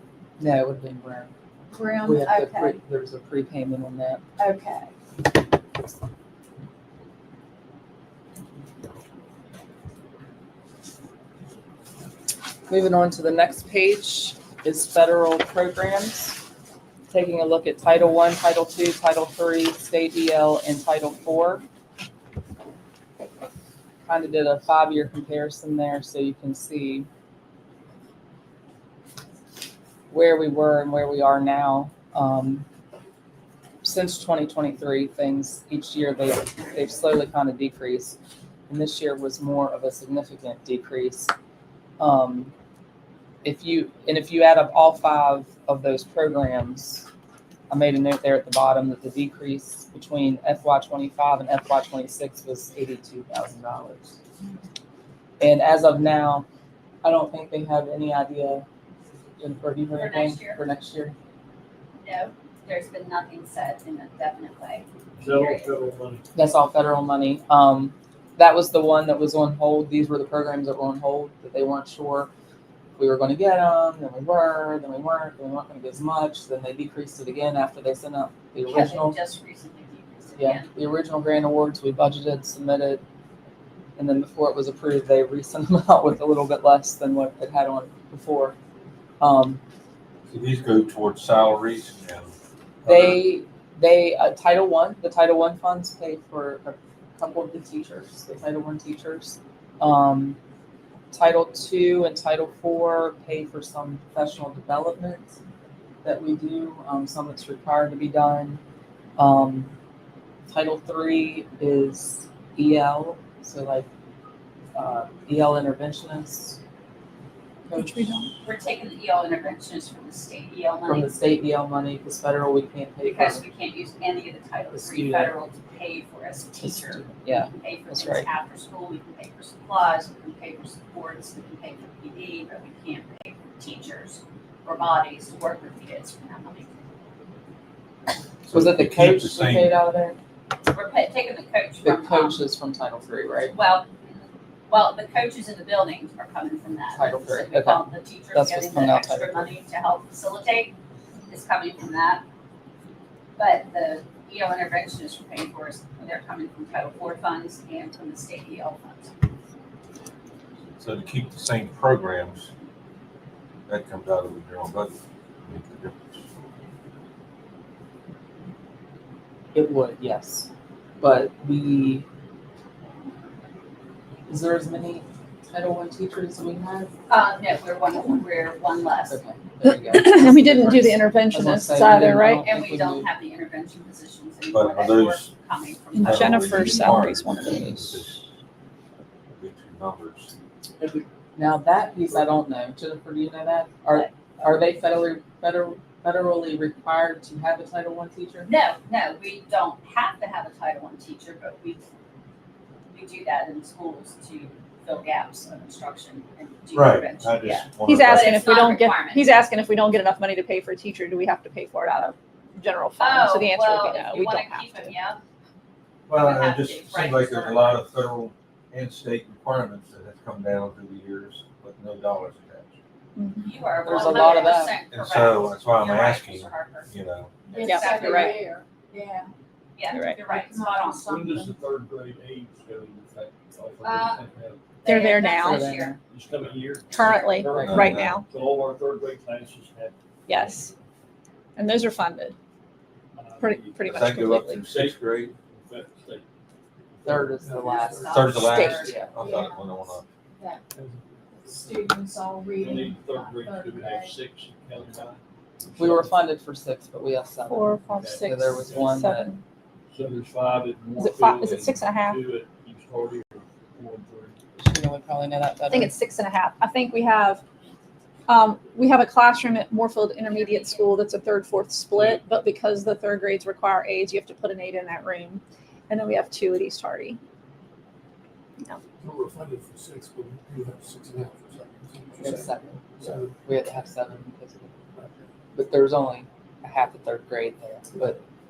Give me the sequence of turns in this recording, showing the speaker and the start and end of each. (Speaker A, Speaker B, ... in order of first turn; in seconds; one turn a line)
Speaker A: 0.4-1.3
Speaker B: 1.7-2.8
Speaker A: 2.0-4.2
Speaker B: 4.4-4.9
Speaker A: 12.7-16.4
Speaker A: 17.1-21.6
Speaker A: 24.1-27.1
Speaker A: 30.1-32.6
Speaker A: 33.8-38.1
Speaker A: 38.7-41.3
Speaker A: 42.0-42.5
Speaker A: 43.4-47.1
Speaker A: 47.7-54.2
Speaker A: 55.4-56.5
Speaker A: 57.0-58.6
Speaker A: 59.4-61.1
Speaker C: 59.9-60.6
Speaker C: 62.0-65.7
Speaker D: 65.2-66.2
Speaker A: 66.3-72.3
Speaker A: 73.0-79.2
Speaker C: 78.7-80.7
Speaker A: 80.4-83.0
Speaker A: 84.0-88.5
Speaker A: 89.2-89.6
Speaker E: 90.3-92.3
Speaker E: 92.8-93.2
Speaker A: 92.8-100.4
Speaker A: 101.1-105.4
Speaker A: 106.0-108.6
Speaker A: 109.2-109.7
Speaker A: 110.5-113.9
Speaker A: 114.7-116.6
Speaker A: 117.7-118.1
Speaker F: 117.8-118.3
Speaker C: 118.4-121.2
Speaker A: 120.9-123.4
Speaker C: 123.0-136.7
Speaker A: 124.7-125.3
Speaker A: 127.0-128.3
Speaker A: 138.5-140.2
Speaker E: 138.5-139.7
Speaker C: 140.7-142.4
Speaker A: 141.8-143.6
Speaker C: 143.5-150.7
Speaker A: 146.9-149.5
Speaker C: 151.3-152.2
Speaker C: 153.4-159.1
Speaker E: 160.8-162.5
Speaker E: 163.7-166.0
Speaker A: 169.5-170.5
Speaker A: 171.0-172.1
Speaker A: 174.3-176.9
Speaker C: 177.1-179.2
Speaker A: 179.1-183.1
Speaker F: 179.6-182.4
Speaker C: 182.4-186.8
Speaker E: 184.5-185.3
Speaker F: 185.9-188.0
Speaker E: 186.0-188.3
Speaker E: 189.3-190.3
Speaker A: 190.8-198.5
Speaker C: 198.4-201.8
Speaker C: 202.9-209.3
Speaker E: 206.7-208.5
Speaker F: 207.8-214.9
Speaker C: 213.0-215.2
Speaker E: 216.1-222.7
Speaker C: 216.2-217.8
Speaker F: 223.2-223.5
Speaker C: 223.4-226.9
Speaker A: 223.8-224.8
Speaker B: 224.0-224.4
Speaker E: 224.9-227.3
Speaker C: 227.5-228.4
Speaker B: 227.5-229.3
Speaker F: 227.6-228.4
Speaker C: 229.8-231.1
Speaker F: 229.9-230.2
Speaker B: 230.2-231.5
Speaker D: 231.0-234.6
Speaker C: 233.8-234.2
Speaker C: 234.8-236.0
Speaker F: 234.8-235.7
Speaker A: 235.4-236.0
Speaker D: 236.1-240.7
Speaker F: 236.9-238.2
Speaker C: 237.0-237.3
Speaker A: 237.5-237.9
Speaker E: 237.5-238.2
Speaker F: 240.3-240.7
Speaker F: 241.6-242.3
Speaker D: 243.1-246.2
Speaker F: 243.4-244.7
Speaker E: 243.8-245.3
Speaker D: 247.0-247.3
Speaker A: 247.0-249.1
Speaker G: 247.2-248.3
Speaker C: 247.8-249.0
Speaker E: 248.1-250.0
Speaker F: 248.4-248.9
Speaker B: 249.0-249.6
Speaker B: 251.4-254.1
Speaker D: 252.6-255.2
Speaker A: 255.8-259.3
Speaker F: 257.5-259.4
Speaker D: 257.9-258.9
Speaker D: 259.9-264.4
Speaker F: 260.9-262.2
Speaker A: 264.6-265.9
Speaker F: 265.7-267.4
Speaker F: 268.3-277.2
Speaker C: 270.3-270.8
Speaker D: 271.9-272.2
Speaker G: 279.0-283.3
Speaker A: 282.2-284.7
Speaker A: 285.5-288.2